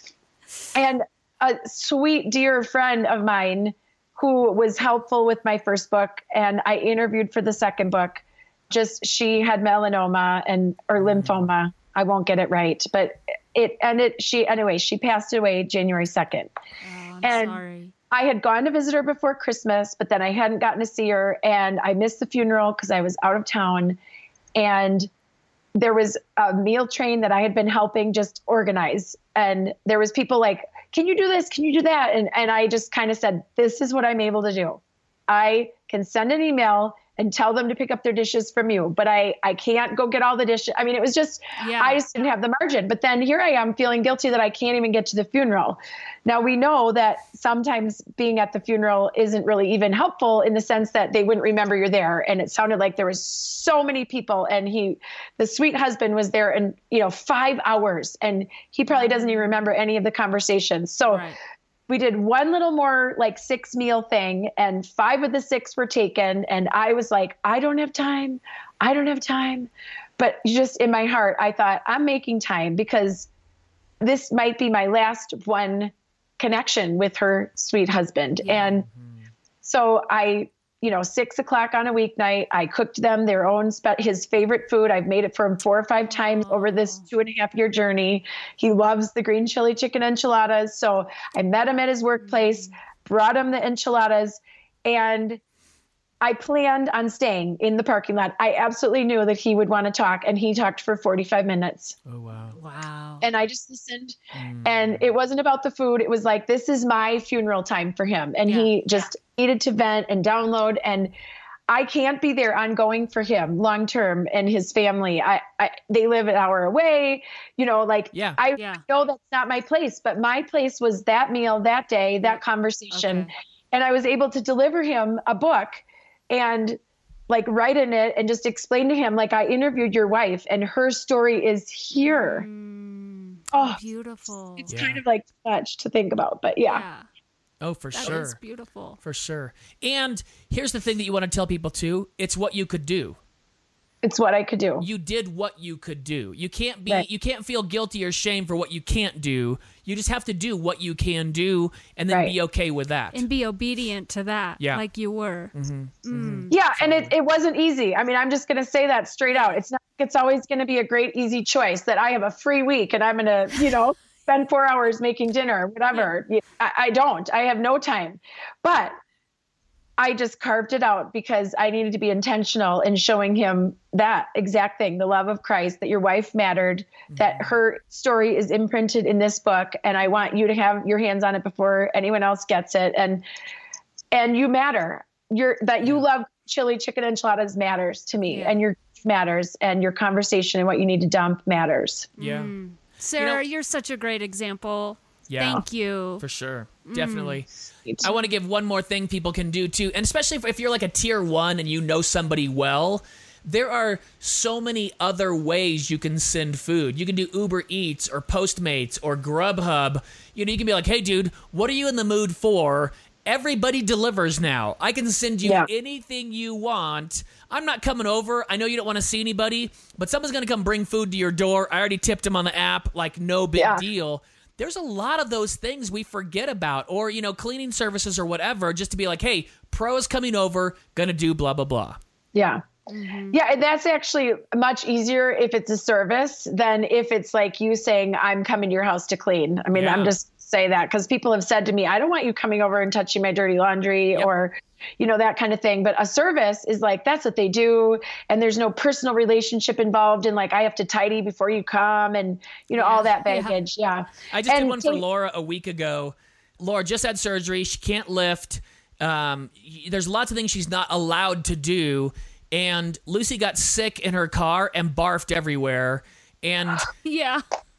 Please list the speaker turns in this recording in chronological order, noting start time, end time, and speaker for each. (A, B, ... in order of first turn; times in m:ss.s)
0:00.7-0:16.5 A
0:11.0-0:11.5 B
0:16.8-0:17.9 C
0:17.2-0:24.0 A
0:24.6-0:25.1 A
0:25.8-1:01.3 A
0:41.6-0:42.0 C
0:58.9-0:59.5 C
1:01.1-1:01.4 C
1:01.9-1:13.3 A
1:14.0-1:18.9 A
1:18.4-1:18.8 C
1:18.9-1:19.3 B
1:19.6-1:35.4 A
1:26.1-1:27.1 C
1:32.2-1:32.7 C
1:36.2-1:42.0 A
1:42.1-1:42.6 B
1:42.6-1:43.2 C
1:43.2-1:51.1 A
1:44.3-1:45.1 B
1:51.7-2:12.5 A
1:58.1-1:58.4 B
1:58.6-1:58.8 C
2:02.9-2:03.3 C
2:12.0-2:14.7 C
2:13.5-2:13.8 A
2:14.6-2:16.8 A
2:14.7-2:15.0 B
2:16.6-2:17.1 C
2:17.6-2:18.4 B
2:17.9-2:19.0 C
2:19.0-2:23.2 B
2:24.0-2:24.9 A
2:24.8-2:33.2 B
2:33.1-2:36.6 C
2:35.5-2:37.1 B
2:36.5-2:49.0 A
2:50.0-3:03.2 A
2:57.1-2:57.5 B
3:04.1-3:12.1 A
3:08.3-3:08.6 C
3:12.2-3:16.2 C
3:12.2-3:12.5 B
3:15.3-3:15.6 B
3:16.2-3:17.5 B
3:16.9-3:17.4 C
3:18.0-3:52.0 B
3:35.4-3:35.7 A
3:43.6-3:43.8 A
3:52.3-3:52.6 A
3:52.9-3:53.4 C
3:53.3-4:15.0 A
3:59.7-4:00.2 B
4:12.8-4:13.6 C
4:14.3-4:26.9 B
4:27.0-4:27.4 C